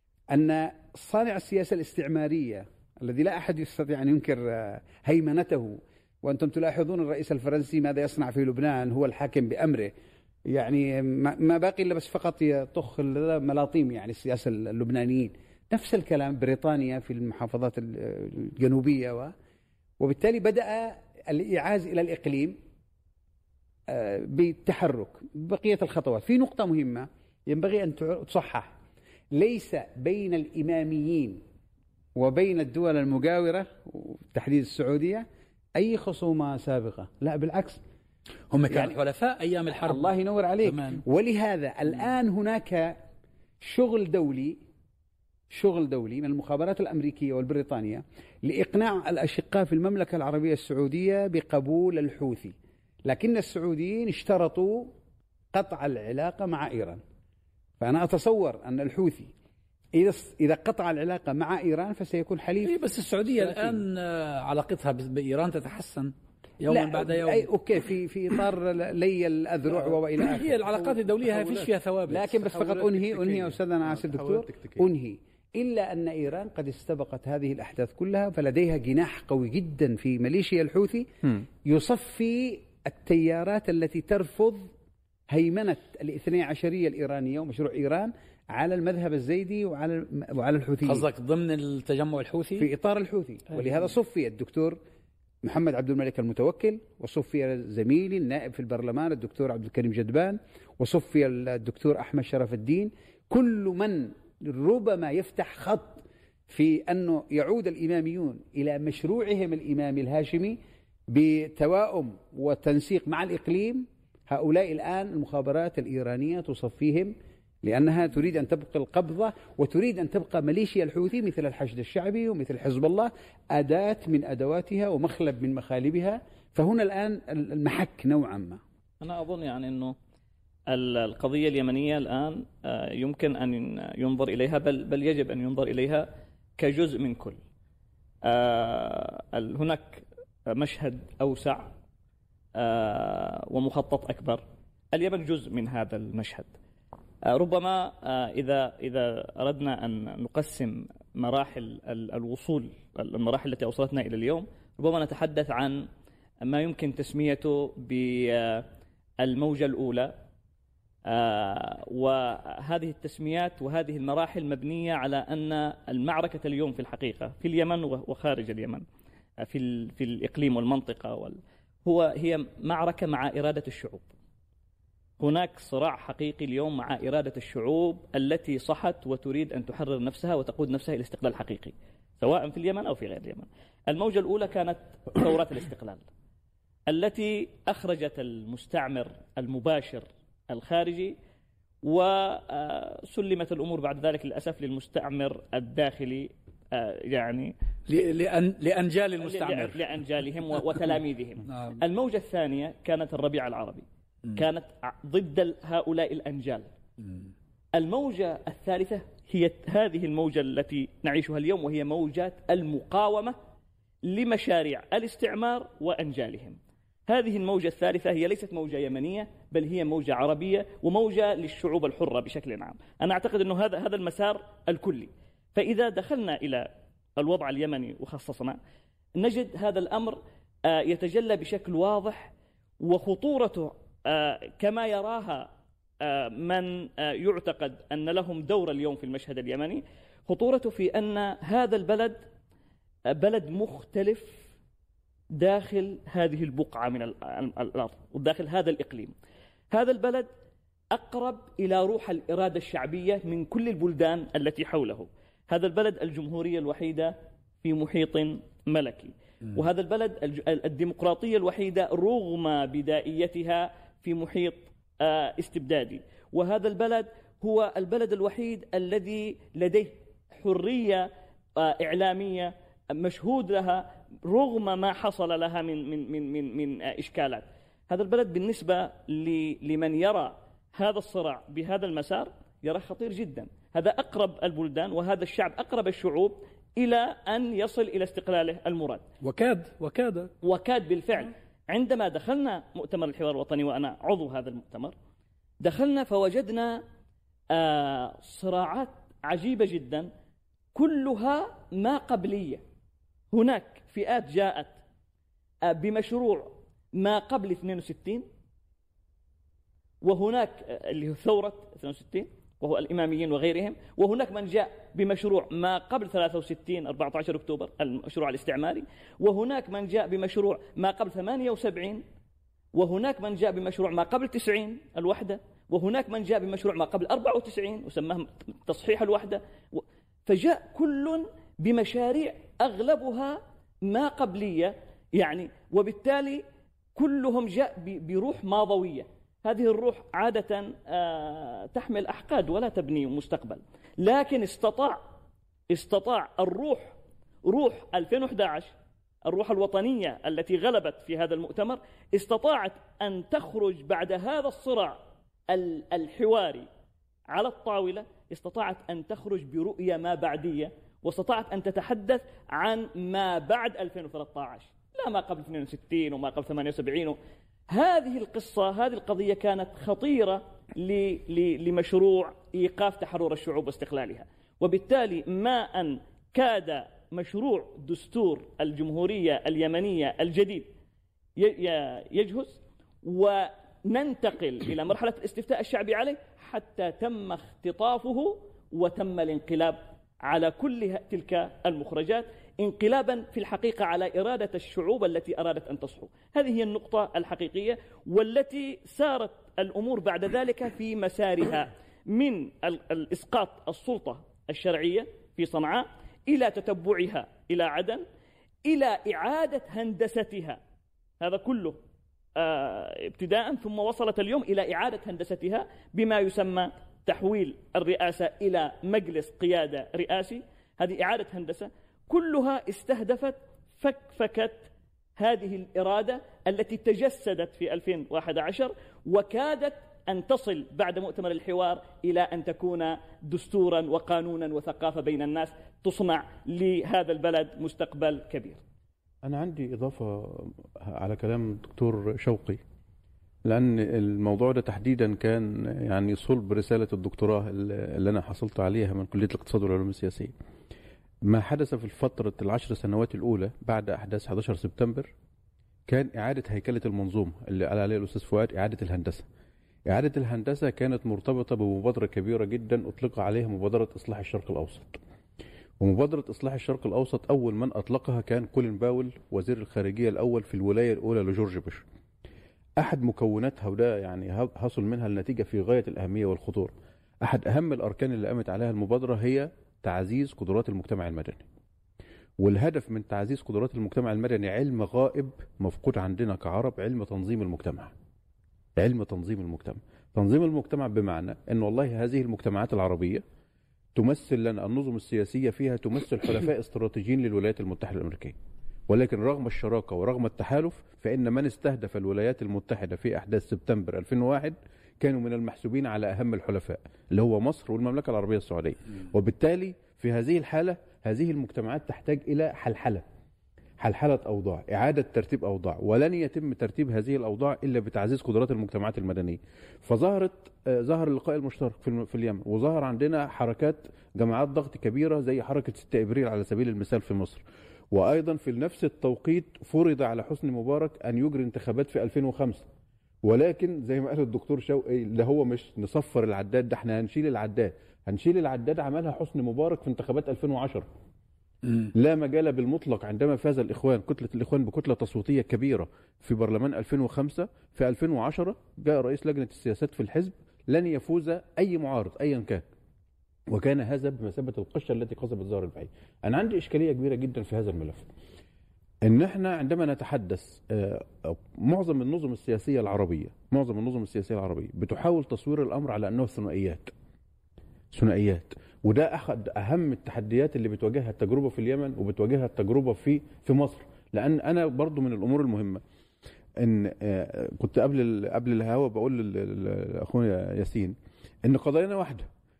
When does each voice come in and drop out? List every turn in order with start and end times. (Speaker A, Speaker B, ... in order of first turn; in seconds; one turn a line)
Speaker A: 0.3-9.9
Speaker A: 10.5-19.3
Speaker A: 20.0-22.6
Speaker A: 23.9-28.8
Speaker A: 29.3-31.4
Speaker A: 32.2-35.3
Speaker A: 35.8-37.8
Speaker B: 38.5-40.1
Speaker A: 38.7-39.0
Speaker A: 39.8-43.0
Speaker B: 40.6-41.0
Speaker A: 43.6-44.6
Speaker A: 45.5-54.9
Speaker A: 55.5-57.0
Speaker A: 57.8-59.3
Speaker A: 60.0-62.8
Speaker B: 62.6-67.5
Speaker A: 63.4-63.7
Speaker A: 66.7-71.0
Speaker B: 70.2-72.6
Speaker C: 71.3-71.7
Speaker A: 72.1-81.1
Speaker C: 72.5-74.9
Speaker A: 81.6-84.7
Speaker A: 85.3-91.1
Speaker B: 90.9-92.7
Speaker A: 92.6-94.8
Speaker A: 95.4-110.6
Speaker A: 111.1-128.6
Speaker D: 129.0-129.9
Speaker D: 130.7-137.4
Speaker D: 138.2-141.7
Speaker D: 142.6-146.5
Speaker D: 147.3-155.9
Speaker D: 156.4-158.7
Speaker D: 159.2-160.2
Speaker D: 161.1-168.8
Speaker D: 169.4-174.1
Speaker D: 175.2-186.0
Speaker D: 186.9-191.2
Speaker D: 191.8-197.5
Speaker B: 197.9-199.9
Speaker D: 199.2-206.7
Speaker B: 201.5-201.8
Speaker D: 207.8-213.4
Speaker D: 214.1-228.6
Speaker D: 229.2-235.5
Speaker D: 236.0-242.2
Speaker D: 243.1-244.4
Speaker D: 245.3-249.1
Speaker D: 249.7-250.3
Speaker D: 250.9-289.1
Speaker B: 289.2-290.3
Speaker D: 290.4-294.9
Speaker D: 295.6-296.8
Speaker D: 297.5-300.1
Speaker D: 300.7-302.6
Speaker D: 303.3-304.8
Speaker D: 305.6-308.3
Speaker D: 310.0-322.0
Speaker D: 322.8-336.4
Speaker D: 336.9-345.0
Speaker D: 345.7-348.7
Speaker D: 349.3-356.7
Speaker D: 357.3-367.2
Speaker D: 367.7-380.7
Speaker D: 381.4-408.0
Speaker D: 408.7-410.6
Speaker D: 411.2-411.8
Speaker D: 412.4-438.6
Speaker C: 439.2-442.6
Speaker C: 443.4-450.3
Speaker C: 451.2-455.1
Speaker C: 455.9-459.3
Speaker C: 459.9-465.0
Speaker C: 465.8-471.8
Speaker C: 472.8-476.7
Speaker C: 477.2-481.4
Speaker C: 482.4-487.9
Speaker C: 488.8-493.2
Speaker C: 493.9-498.4
Speaker C: 498.9-513.0
Speaker C: 513.8-532.6
Speaker C: 533.2-540.9
Speaker C: 541.9-552.6
Speaker C: 553.5-558.1
Speaker C: 559.0-566.9
Speaker C: 567.9-575.8
Speaker C: 576.6-582.3